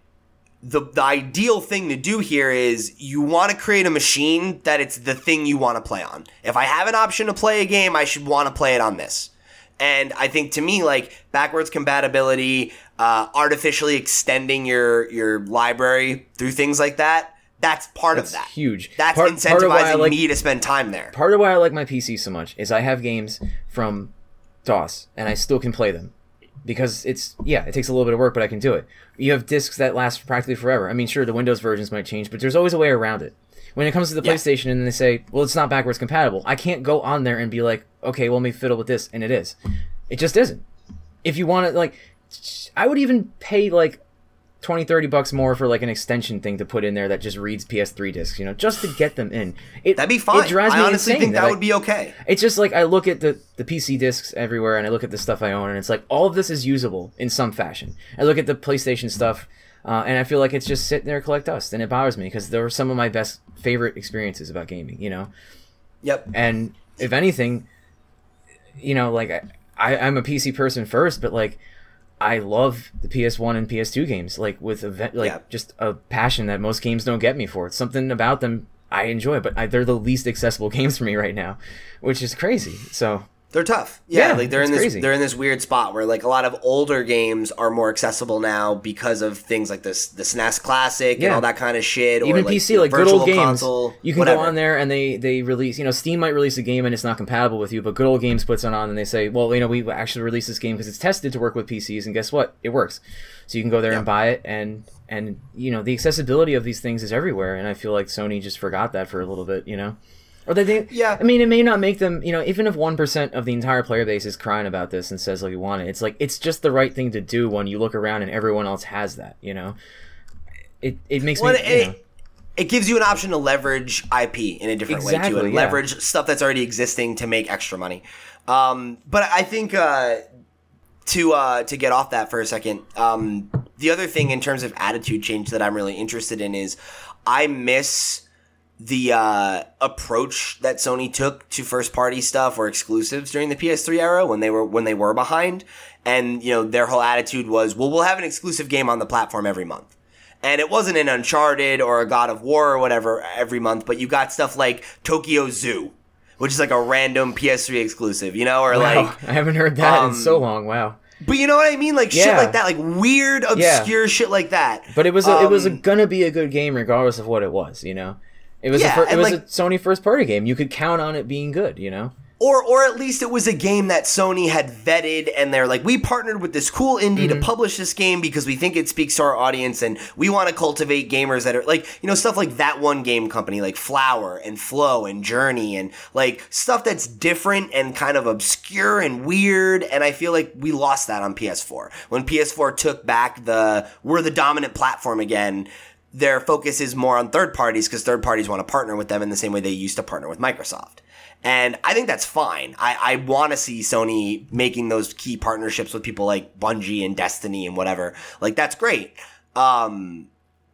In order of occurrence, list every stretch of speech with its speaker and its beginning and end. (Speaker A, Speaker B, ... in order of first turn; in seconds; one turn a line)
Speaker A: 0.6-21.1
Speaker B: 18.1-20.2
Speaker B: 21.1-24.1
Speaker B: 24.6-26.1
Speaker B: 26.6-39.5
Speaker B: 40.1-40.6
Speaker B: 41.2-44.0
Speaker B: 44.6-51.6
Speaker A: 50.0-52.1
Speaker B: 52.2-65.3
Speaker A: 66.0-66.3
Speaker B: 66.3-67.7
Speaker B: 68.8-71.6
Speaker B: 72.2-83.3
Speaker A: 83.5-94.5
Speaker B: 84.1-85.1
Speaker B: 91.2-91.5
Speaker B: 92.2-119.8
Speaker A: 110.9-111.2
Speaker B: 120.8-122.0
Speaker A: 121.4-122.0
Speaker A: 122.6-130.2
Speaker B: 124.9-125.8
Speaker A: 131.1-138.2
Speaker A: 138.8-149.9
Speaker A: 150.4-159.2
Speaker B: 158.7-161.0
Speaker A: 159.8-160.4
Speaker A: 161.2-165.8
Speaker B: 162.1-162.6
Speaker B: 163.6-163.9
Speaker B: 164.9-172.1
Speaker A: 168.7-169.4
Speaker A: 172.4-210.3
Speaker B: 177.2-177.5